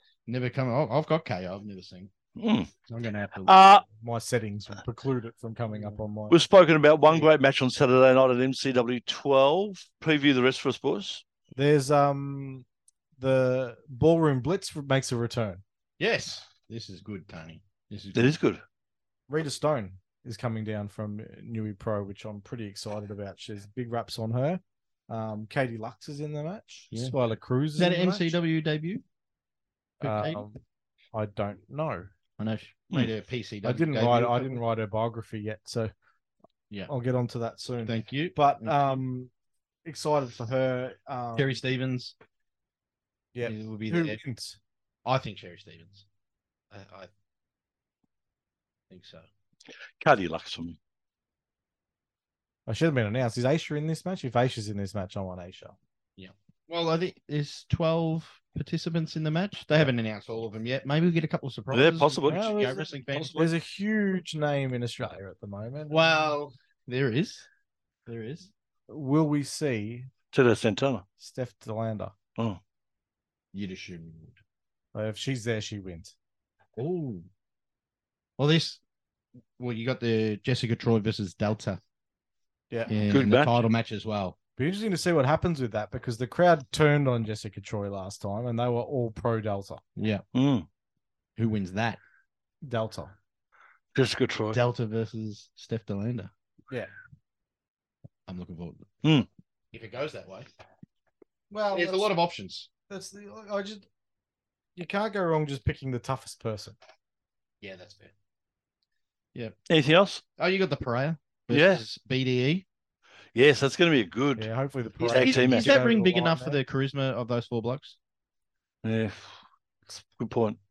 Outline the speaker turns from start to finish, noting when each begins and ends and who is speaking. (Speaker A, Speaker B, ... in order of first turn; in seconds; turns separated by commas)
Speaker A: 0.3-2.1, Speaker B: 2.4-2.7, Speaker A: 2.9-3.5, Speaker B: 3.5-3.8, Speaker C: 3.8-6.3, Speaker B: 6.3-11.2, Speaker C: 11.5-12.6, Speaker C: 13.2-15.6, Speaker A: 16.0-18.4, Speaker B: 18.1-18.6, Speaker C: 19.3-28.4, Speaker A: 27.8-29.0, Speaker A: 30.0-30.5, Speaker C: 30.0-30.6, Speaker C: 31.1-32.1, Speaker A: 32.4-34.6, Speaker C: 33.6-35.9, Speaker C: 36.9-39.3, Speaker A: 37.9-39.0, Speaker C: 39.8-41.5, Speaker A: 41.3-42.1, Speaker C: 43.3-44.6, Speaker A: 43.4-44.2, Speaker A: 45.0-46.0, Speaker A: 46.7-47.1, Speaker A: 48.9-49.3, Speaker B: 50.0-50.8, Speaker C: 52.7-55.8, Speaker A: 56.2-63.4, Speaker B: 61.7-63.5, Speaker C: 62.3-66.1, Speaker A: 65.9-67.5, Speaker A: 68.0-68.5, Speaker C: 68.9-70.1, Speaker B: 70.3-71.0, Speaker C: 71.2-72.2, Speaker A: 73.5-74.4, Speaker C: 74.9-76.1, Speaker A: 76.8-77.3, Speaker A: 78.4-78.8, Speaker A: 79.6-81.8, Speaker C: 82.7-83.0, Speaker A: 82.9-84.4, Speaker B: 83.1-83.6, Speaker C: 84.6-89.8, Speaker A: 90.0-90.2, Speaker B: 90.3-90.7, Speaker A: 91.4-92.0, Speaker C: 92.6-93.1, Speaker B: 93.9-94.6, Speaker A: 94.5-96.3, Speaker A: 98.3-98.9, Speaker A: 99.7-100.5, Speaker C: 101.5-102.1, Speaker A: 101.7-102.7, Speaker C: 102.9-103.9, Speaker C: 104.8-106.8, Speaker A: 107.6-108.1, Speaker B: 109.7-110.2, Speaker A: 110.4-112.6, Speaker B: 111.5-111.8, Speaker B: 113.3-114.5, Speaker C: 114.4-116.6, Speaker B: 115.0-115.7, Speaker A: 115.0-118.0, Speaker B: 118.8-119.4, Speaker B: 119.9-120.6